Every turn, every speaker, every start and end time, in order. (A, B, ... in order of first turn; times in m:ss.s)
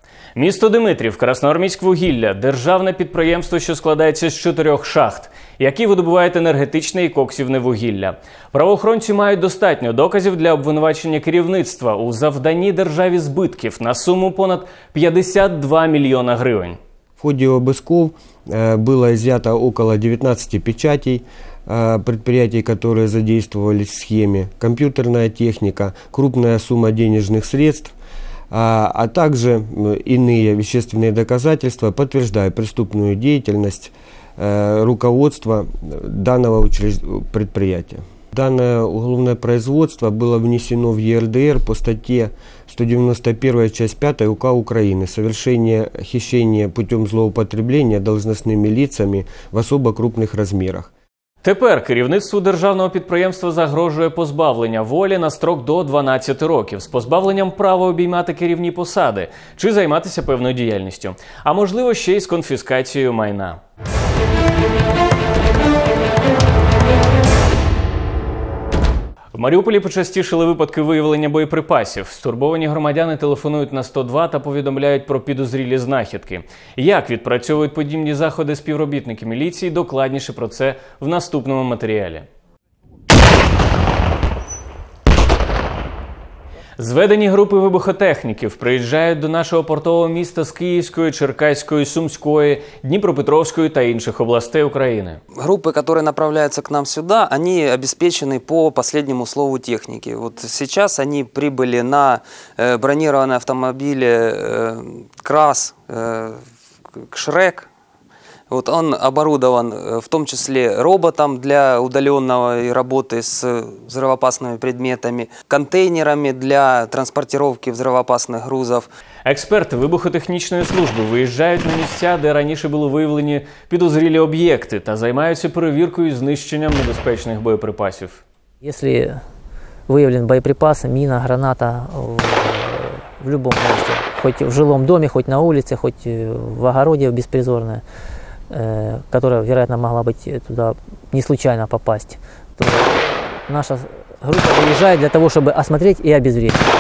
0:00.4-0:16.8 A
0:17.2-0:27.9 B
0:28.5-0:50.9 B
0:51.4-1:03.6 A
1:09.3-1:22.3 A
1:26.8-1:35.2 A
1:35.4-1:46.4 C
1:47.0-1:47.7 C
1:48.5-1:58.9 C
1:59.3-2:08.2 A
2:08.6-2:09.2 D
2:09.9-2:12.7 D
2:13.2-2:17.8 D
2:18.5-2:26.6 D